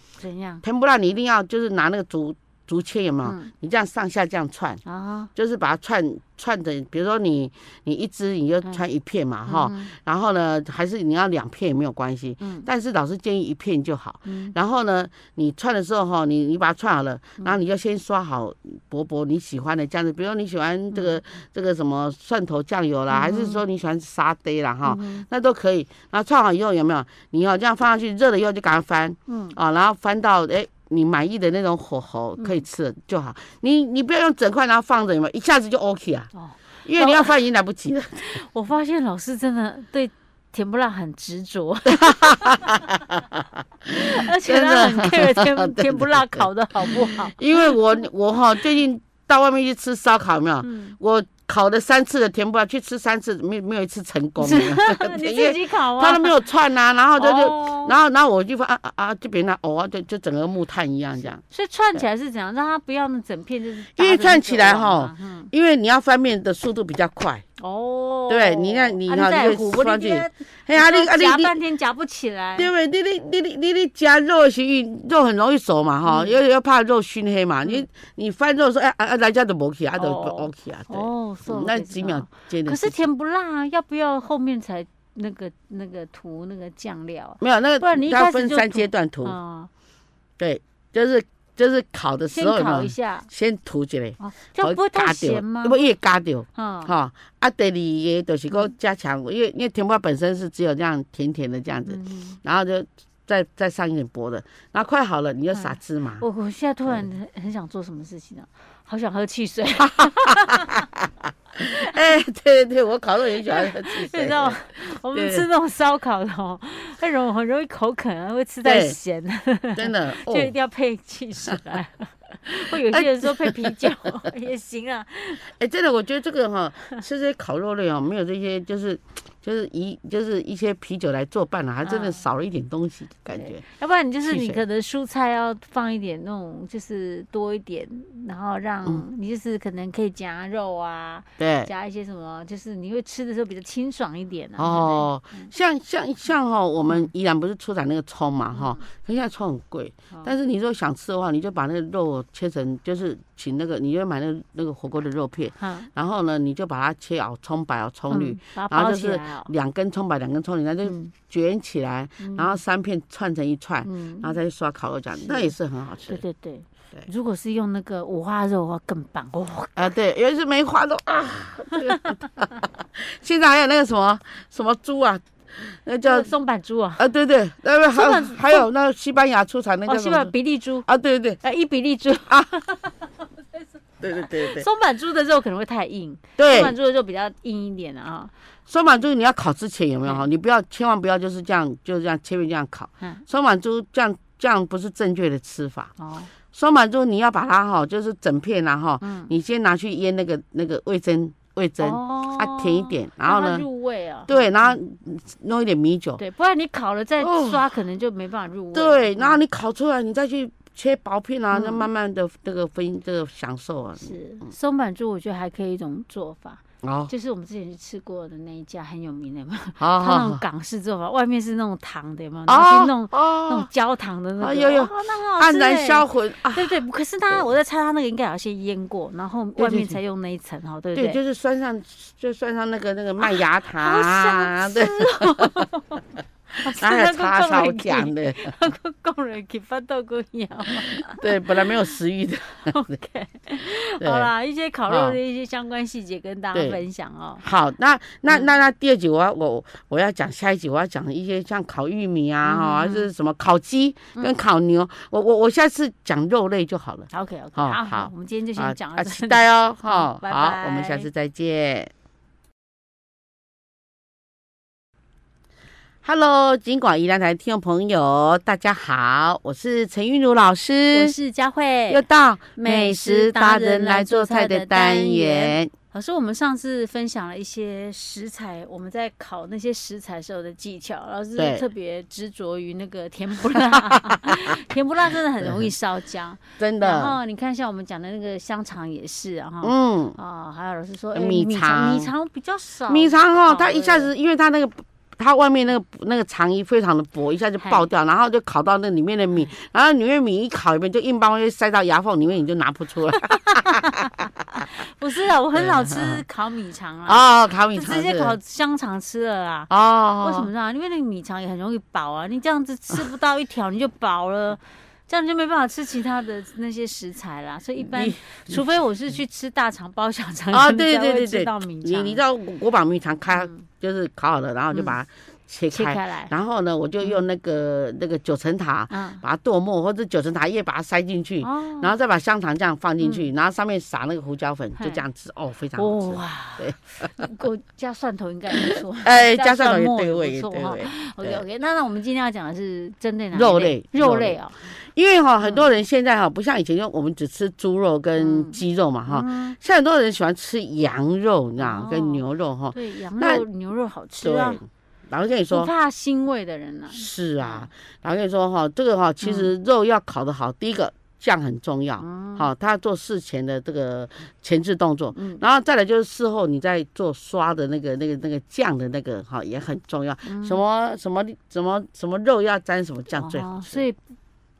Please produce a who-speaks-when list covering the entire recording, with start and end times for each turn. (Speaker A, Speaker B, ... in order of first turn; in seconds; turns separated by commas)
Speaker A: 0.2-0.6, Speaker B: 0.6-4.8, Speaker A: 3.2-3.5, Speaker A: 4.8-5.3, Speaker B: 5.3-36.3, Speaker A: 9.4-9.9, Speaker A: 12.4-12.7, Speaker A: 14.2-14.5, Speaker A: 20.9-21.2, Speaker A: 23.1-23.6, Speaker A: 24.8-25.2, Speaker A: 29.3-29.6, Speaker A: 32.4-32.6, Speaker A: 36.3-37.4, Speaker B: 36.8-38.4, Speaker A: 38.2-42.8, Speaker B: 41.9-61.4, Speaker A: 43.9-47.8, Speaker A: 50.6-51.0, Speaker A: 54.4-56.5, Speaker A: 57.1-57.9, Speaker A: 61.4-65.5, Speaker B: 64.0-67.4, Speaker A: 67.6-72.7, Speaker B: 68.3-71.5, Speaker B: 72.5-83.0, Speaker A: 76.0-76.4, Speaker A: 80.0-89.7, Speaker B: 87.4-89.3, Speaker B: 90.4-106.2, Speaker A: 92.3-93.3, Speaker A: 94.2-95.8, Speaker A: 96.5-96.9, Speaker A: 101.9-102.4, Speaker A: 105.5-110.8, Speaker B: 109.8-114.6, Speaker A: 113.4-125.4, Speaker B: 115.1-115.5, Speaker B: 118.6-119.0, Speaker B: 119.8-120.5, Speaker B: 122.8-123.9, Speaker B: 125.5-133.6, Speaker A: 131.8-132.2, Speaker A: 133.3-145.5, Speaker B: 134.2-134.6, Speaker B: 141.4-141.7, Speaker B: 144.6-166.2, Speaker A: 148.5-148.8, Speaker A: 155.6-155.9, Speaker A: 158.1-159.5, Speaker A: 160.8-161.1, Speaker A: 162.2-162.6, Speaker A: 163.8-164.4, Speaker A: 165.2-165.5, Speaker A: 166.1-169.9, Speaker B: 169.8-176.3, Speaker A: 176.0-177.0, Speaker B: 177.0-180.3, Speaker A: 177.9-178.7, Speaker A: 179.9-180.9, Speaker B: 180.8-181.4, Speaker A: 181.4-188.3, Speaker B: 182.2-182.6, Speaker B: 184.0-184.7, Speaker B: 186.4-186.7, Speaker B: 188.7-195.9, Speaker A: 196.0-196.3, Speaker B: 196.5-203.7, Speaker A: 199.0-199.3, Speaker A: 201.8-204.8, Speaker B: 204.3-206.2, Speaker A: 206.2-209.4, Speaker B: 207.2-207.7, Speaker B: 208.7-214.1, Speaker A: 211.5-211.8, Speaker A: 214.0-231.2, Speaker B: 216.8-217.1, Speaker B: 219.8-220.4, Speaker B: 222.5-223.7, Speaker B: 224.4-227.5, Speaker B: 229.6-230.0, Speaker B: 230.9-235.7, Speaker A: 233.2-236.0, Speaker B: 236.5-238.6, Speaker A: 236.6-241.8, Speaker B: 241.0-242.8, Speaker A: 242.6-247.4, Speaker B: 244.0-244.3, Speaker B: 244.9-245.2, Speaker B: 246.5-246.8, Speaker B: 247.4-261.9, Speaker A: 252.4-253.1, Speaker A: 257.1-261.1, Speaker B: 266.0-271.1, Speaker A: 270.9-272.0, Speaker B: 271.9-275.7, Speaker A: 272.6-294.1, Speaker B: 281.4-281.6, Speaker B: 283.6-284.6, Speaker B: 286.6-287.2, Speaker B: 289.6-290.2, Speaker B: 291.1-292.1, Speaker B: 292.9-304.3, Speaker A: 297.6-297.9, Speaker A: 303.2-309.7, Speaker B: 305.5-306.2, Speaker B: 307.1-308.3, Speaker B: 309.7-310.5, Speaker A: 310.2-322.2, Speaker B: 317.8-318.6, Speaker B: 320.5-337.3, Speaker A: 323.3-323.6, Speaker A: 325.7-326.3, Speaker A: 328.9-329.2, Speaker A: 331.4-331.9, Speaker A: 333.0-333.3, Speaker A: 334.8-335.0, Speaker A: 335.8-344.7, Speaker B: 338.5-341.4, Speaker B: 343.3-353.4, Speaker A: 345.4-345.7, Speaker A: 348.2-349.6, Speaker A: 351.6-354.6, Speaker B: 354.2-355.7, Speaker A: 355.5-357.7, Speaker B: 356.9-373.8, Speaker A: 359.2-359.5, Speaker A: 362.0-362.5, Speaker A: 365.1-365.4, Speaker A: 370.2-370.6, Speaker A: 373.1-374.0